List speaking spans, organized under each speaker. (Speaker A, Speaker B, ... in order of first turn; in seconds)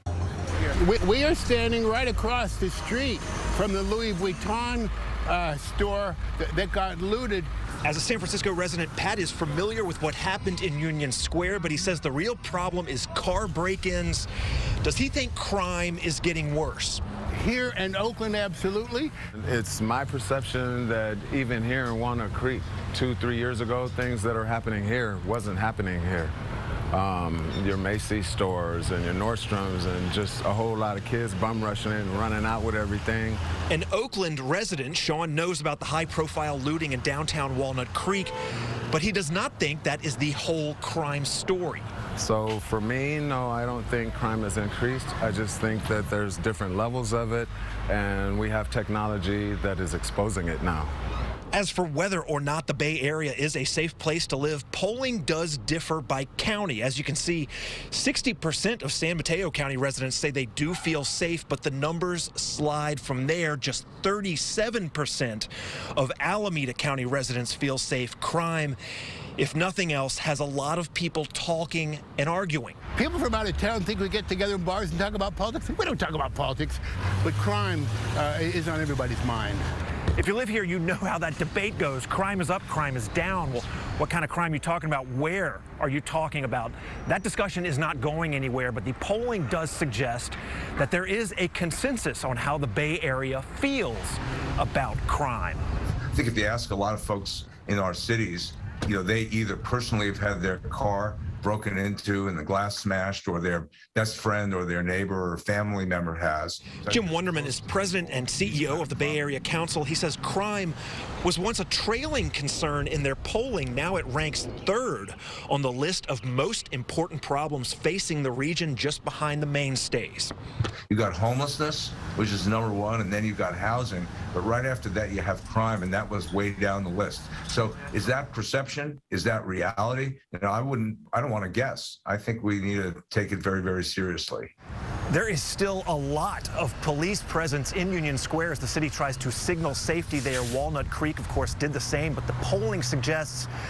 Speaker A: 0.7-7.5, 17.3-19.1, 73.0-79.6
Speaker B: 7.8-14.3, 14.8-17.0, 33.7-38.3, 38.9-41.9, 51.5-68.8, 69.4-72.8, 80.2-95.6, 106.9-120.3, 135.1-143.5
Speaker C: 19.3-26.3, 26.9-33.4, 42.2-50.9
Speaker D: 96.1-109.3, 120.9-134.5